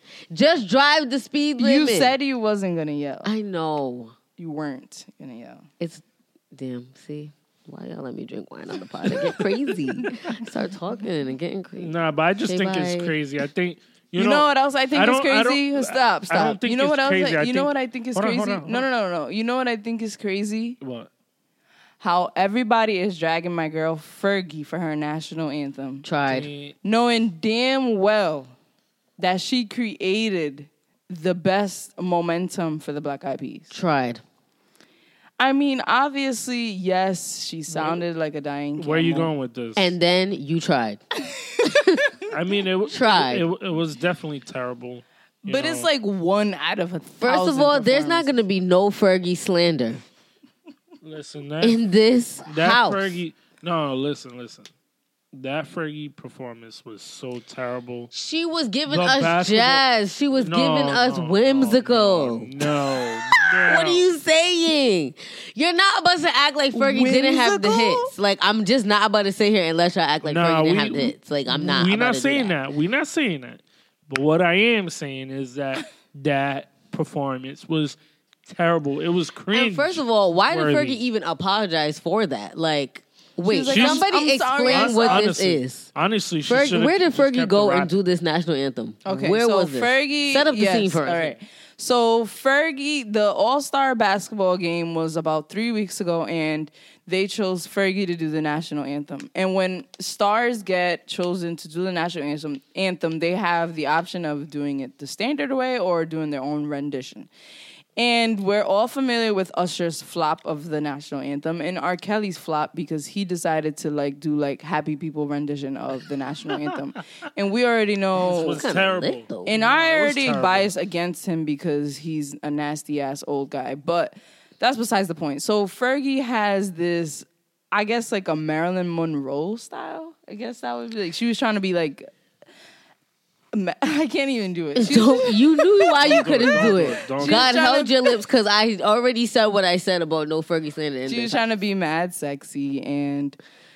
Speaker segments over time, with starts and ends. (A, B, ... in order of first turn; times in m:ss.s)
0:00.3-0:02.1 A
0:01.6-0:03.3 B
0:03.2-0:04.2 A
0:04.4-0:05.6 B
0:05.8-0:11.9 A
0:11.8-0:18.9 C
0:12.4-0:13.1 A
0:14.1-0:20.8 B
0:20.8-0:21.1 C
0:22.0-0:26.1 B
0:26.0-0:26.5 A
0:26.2-0:26.7 C
0:26.8-0:28.5 B
0:29.2-0:33.7 B
0:33.7-0:34.2 A
0:35.4-0:39.3 B
0:37.7-0:38.0 C
0:38.8-0:40.0 C
0:39.8-0:41.0 A
0:41.5-0:41.8 B
0:41.6-0:42.1 A
0:42.3-0:45.9 C
0:42.9-0:43.4 A
0:45.4-0:48.4 B
0:47.2-0:50.0 A
0:51.0-0:51.8 C
0:51.6-0:53.2 A
0:52.4-0:54.7 C
0:55.3-0:58.1 C
0:58.1-1:02.5 A
0:58.9-0:59.8 C
1:00.4-1:04.1 C
1:03.3-1:12.6 A
1:06.7-1:08.1 B
1:10.2-1:21.0 C
1:19.5-1:25.9 A
1:23.4-1:25.2 B
1:23.7-1:24.0 C
1:24.7-1:27.9 C
1:26.4-1:31.4 A
1:29.0-1:47.3 B
1:48.0-1:58.6 B
1:56.5-1:56.8 C
1:58.2-2:00.7 C
1:58.5-1:59.6 A
1:59.4-2:12.1 B
2:13.5-2:18.2 B
2:14.7-2:21.4 A
2:16.0-2:17.6 C
2:21.1-2:23.4 B